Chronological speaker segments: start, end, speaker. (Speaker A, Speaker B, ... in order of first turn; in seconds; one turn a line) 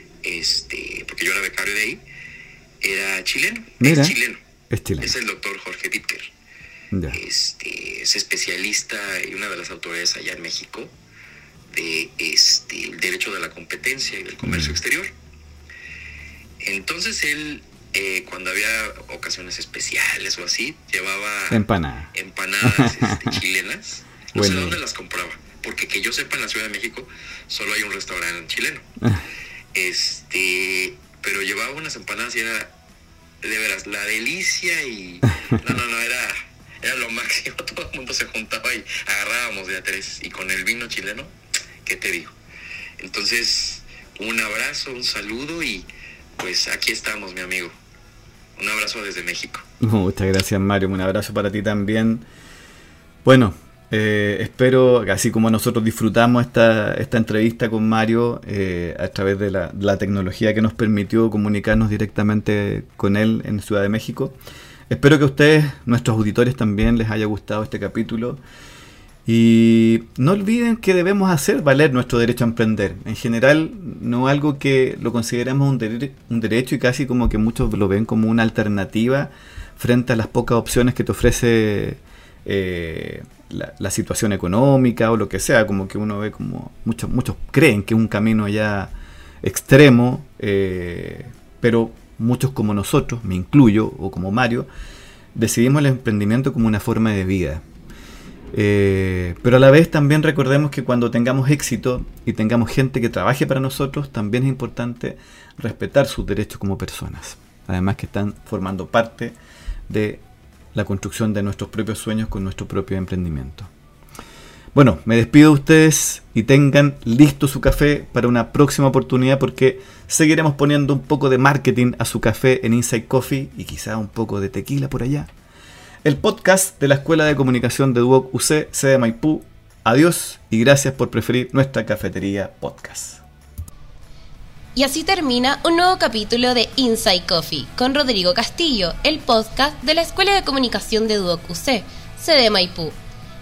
Speaker A: 0.2-2.0
Speaker A: 2.8-4.4
Speaker B: 3.8-4.2
Speaker B: 4.7-5.1
Speaker A: 5.0-6.3
Speaker B: 6.9-7.2
Speaker A: 7.1-10.9
Speaker A: 11.7-15.1
Speaker B: 14.4-14.8
Speaker A: 16.6-28.9
Speaker B: 21.5-22.1
Speaker B: 22.6-23.4
Speaker B: 24.4-24.8
Speaker A: 29.7-32.7
Speaker A: 33.4-42.4
Speaker A: 43.0-45.9
Speaker A: 46.4-47.7
Speaker A: 48.6-49.7
Speaker B: 49.8-52.2
Speaker B: 53.2-64.4
Speaker B: 64.9-68.4
Speaker B: 69.3-94.7
Speaker B: 95.3-97.6
Speaker B: 98.5-109.3
Speaker B: 109.9-110.2
Speaker B: 110.8-113.7
Speaker B: 114.8-125.3
Speaker B: 126.0-133.2
Speaker C: 134.8-142.9